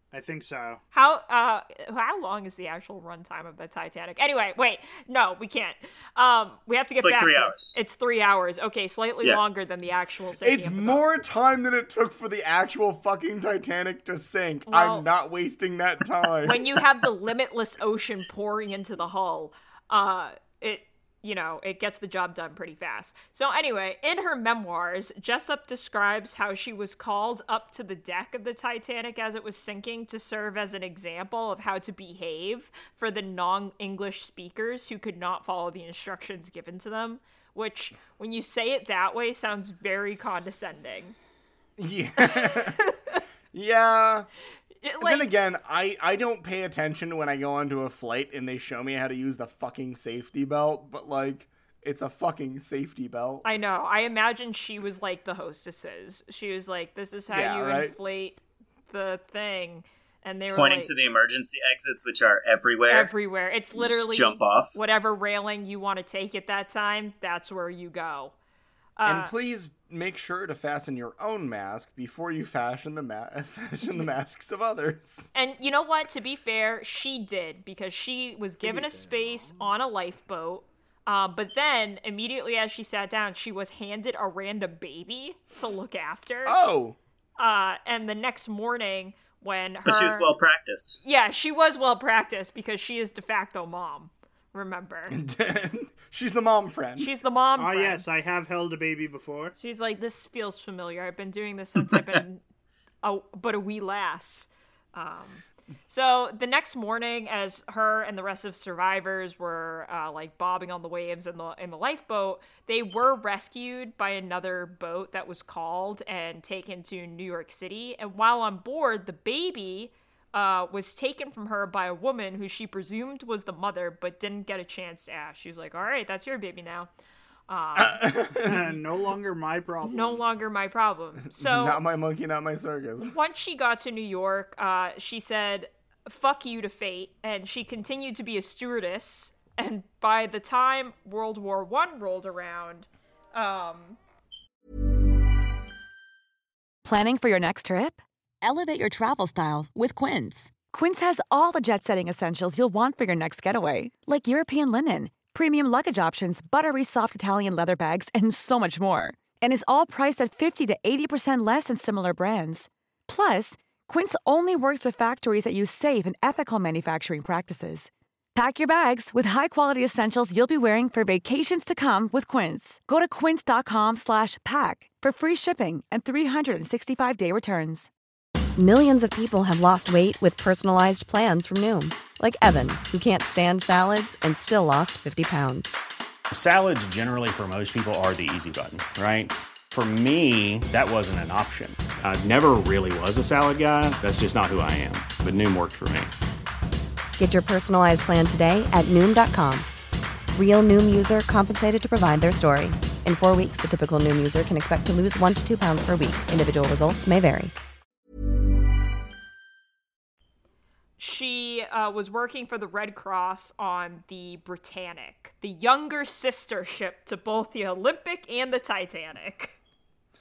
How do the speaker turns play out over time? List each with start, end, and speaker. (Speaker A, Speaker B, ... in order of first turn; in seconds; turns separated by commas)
Speaker A: 0.1-0.8, Speaker B: 0.9-11.1, Speaker C: 7.0-7.8, Speaker D: 10.4-16.8, Speaker B: 14.7-15.1, Speaker B: 16.4-41.1, Speaker D: 41.8-42.9, Speaker B: 42.2-43.2, Speaker D: 43.5-44.3, Speaker B: 44.8-45.3, Speaker D: 45.0-53.5, Speaker B: 53.4-60.9, Speaker D: 57.3-58.0, Speaker C: 60.5-63.1, Speaker B: 62.9-68.3, Speaker C: 63.7-64.8, Speaker B: 69.0-69.3, Speaker D: 69.0-75.3, Speaker B: 75.3-86.6, Speaker D: 78.6-79.1, Speaker D: 86.4-87.0, Speaker B: 87.4-90.3, Speaker C: 89.8-91.0, Speaker B: 91.0-95.2, Speaker D: 95.1-97.1, Speaker B: 97.0-98.0, Speaker A: 97.6-99.5, Speaker B: 99.6-102.4, Speaker B: 103.0-126.9, Speaker B: 127.5-128.2, Speaker D: 127.8-128.7, Speaker A: 128.4-130.2, Speaker B: 129.8-131.8, Speaker D: 131.3-133.2, Speaker B: 133.0-144.0, Speaker E: 146.8-177.9, Speaker F: 178.6-185.8, Speaker G: 186.3-196.1, Speaker F: 197.2-199.7, Speaker F: 200.3-207.5, Speaker B: 211.0-219.6